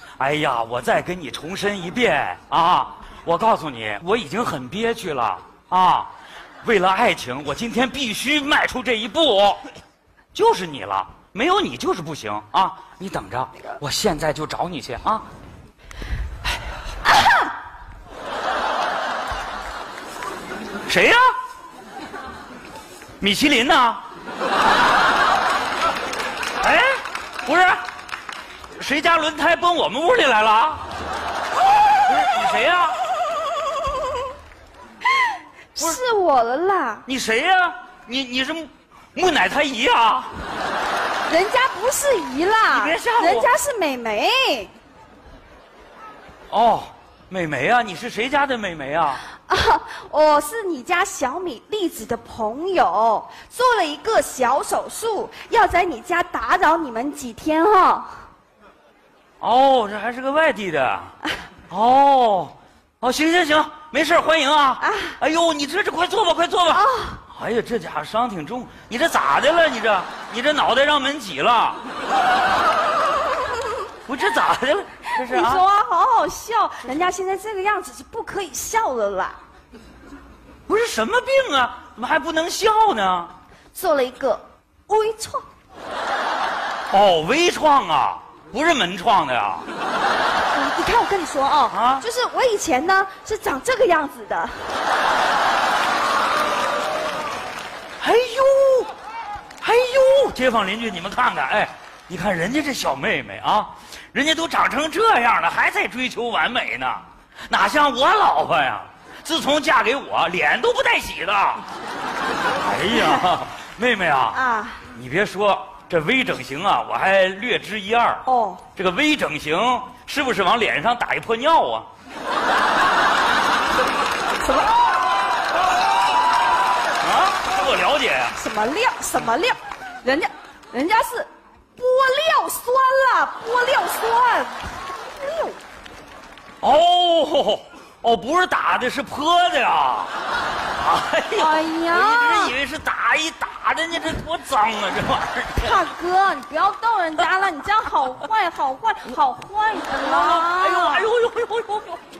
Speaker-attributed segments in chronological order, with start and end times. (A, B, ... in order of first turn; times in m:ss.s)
0:00.2-0:06.1 A
0:06.6-0:09.7 A
0:10.3-0:15.3 A
0:20.9-0:21.2 A
0:23.2-0:24.0 A
0:26.6-0:27.8 A
0:28.8-0:30.8 A
0:32.1-0:33.0 A
0:35.8-0:37.0 B
0:37.0-0:40.3 A
0:41.3-0:44.7 B
0:42.7-0:43.5 A
0:46.5-0:49.3 A
0:49.5-0:58.2 B
0:59.4-1:01.1 A
1:01.7-1:11.8 A
1:04.8-1:05.2 B
1:06.7-1:07.2 B
1:14.0-1:15.6 A
1:15.2-1:19.4 B
1:20.7-1:23.3 A
1:23.8-1:25.4 B
1:26.9-1:29.7 A
1:30.5-1:34.7 B
1:31.7-1:32.1 A
1:38.0-1:38.9 A
1:39.6-1:51.7 A
1:52.6-1:54.4 A
1:54.3-1:54.9 B
1:54.9-2:01.9 A
1:58.2-1:58.6 B
2:04.4-2:04.7 B
2:07.0-2:08.4 A
2:08.3-2:15.6 B
2:16.6-2:20.1 A
2:20.8-2:25.8 A
2:21.3-2:22.6 B
2:25.6-2:31.1 B
2:30.0-2:32.0 A